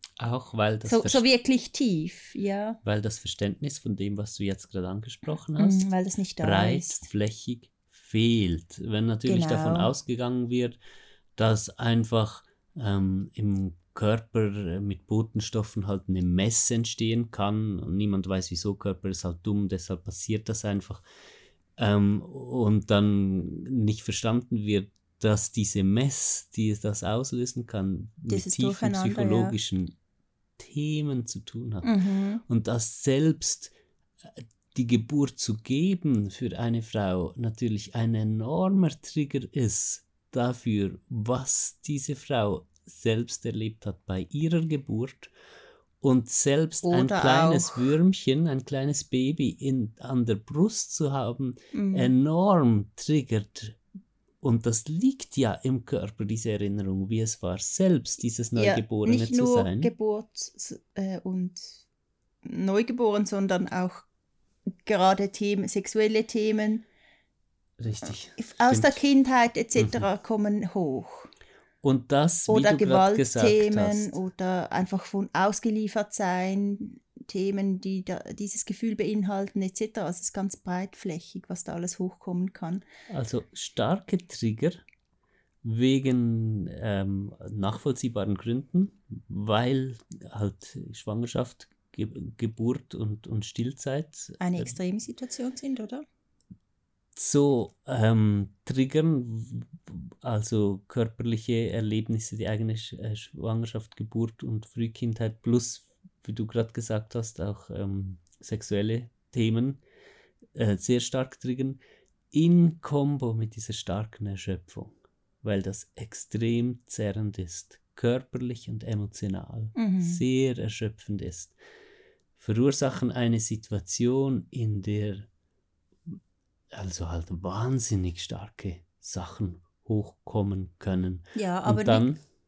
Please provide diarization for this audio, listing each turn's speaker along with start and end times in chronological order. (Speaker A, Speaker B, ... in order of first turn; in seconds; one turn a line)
Speaker A: 0.2-1.2
Speaker B: 0.8-2.8
Speaker A: 2.8-5.9
Speaker B: 5.6-7.0
Speaker A: 6.4-10.8
Speaker B: 9.2-9.9
Speaker A: 11.3-21.0
Speaker A: 21.8-29.9
Speaker B: 28.3-29.6
Speaker A: 30.6-31.9
Speaker B: 31.8-32.4
Speaker A: 32.5-33.7
Speaker A: 34.4-45.3
Speaker A: 46.0-53.8
Speaker B: 46.8-47.9
Speaker B: 51.7-52.1
Speaker A: 54.4-59.9
Speaker B: 58.5-61.8
Speaker B: 62.4-64.0
Speaker B: 64.8-66.8
Speaker A: 67.8-69.0
Speaker B: 68.3-71.3
Speaker A: 69.8-70.0
Speaker A: 71.8-74.2
Speaker B: 72.5-82.8
Speaker A: 83.1-84.8
Speaker A: 85.6-94.8
Speaker B: 94.4-96.0
Speaker A: 97.2-109.8
Speaker A: 110.5-111.8
Speaker A: 112.3-121.5
Speaker B: 119.8-120.2
Speaker A: 122.4-125.3
Speaker A: 126.7-132.2
Speaker B: 131.3-132.1